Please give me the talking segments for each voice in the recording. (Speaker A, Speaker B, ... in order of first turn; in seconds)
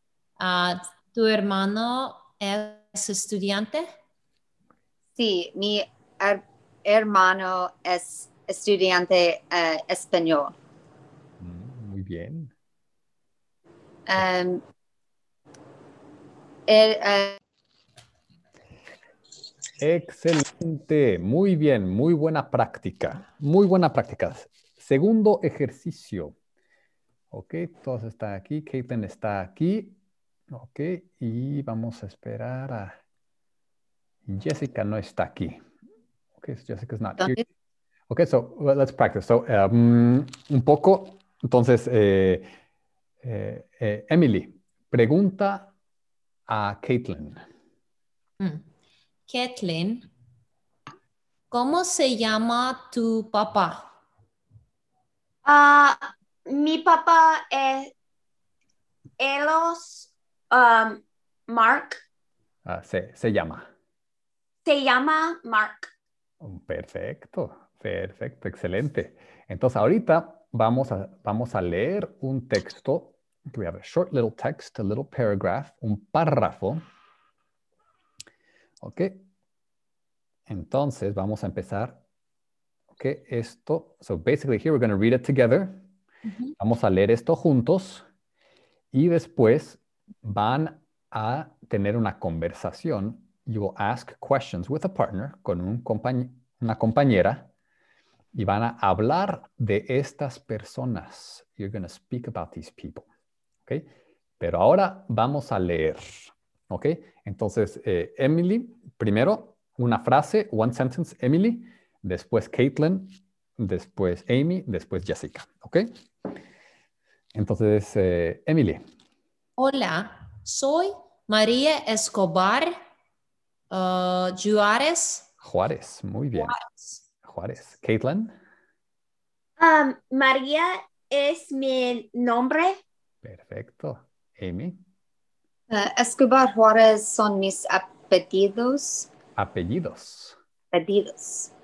Speaker A: 0.4-3.9, 48.4-48.7, 49.3-50.1, 51.5-53.9, 86.3-86.5, 119.6-122.8, 123.7-125.3, 126.4-127.0
Speaker B: 5.2-10.6, 14.1-14.6, 16.7-17.4, 135.7-139.1, 140.7-141.5
Speaker C: 11.4-12.5, 19.8-26.4, 27.3-30.0, 30.5-33.0, 34.3-35.6, 36.4-37.4, 38.1-42.5, 43.2-45.7, 46.5-47.4, 62.6-63.7, 66.4-76.8, 78.8-79.2, 80.5-82.0, 83.0-85.8, 86.6-88.0, 88.9-97.5, 98.3-103.1, 103.7-115.9, 117.3-118.8, 125.4-126.5, 127.2-128.3, 133.2-134.8, 139.4-140.3
Speaker D: 55.5-57.9, 59.2-62.0, 64.7-65.9, 129.6-132.8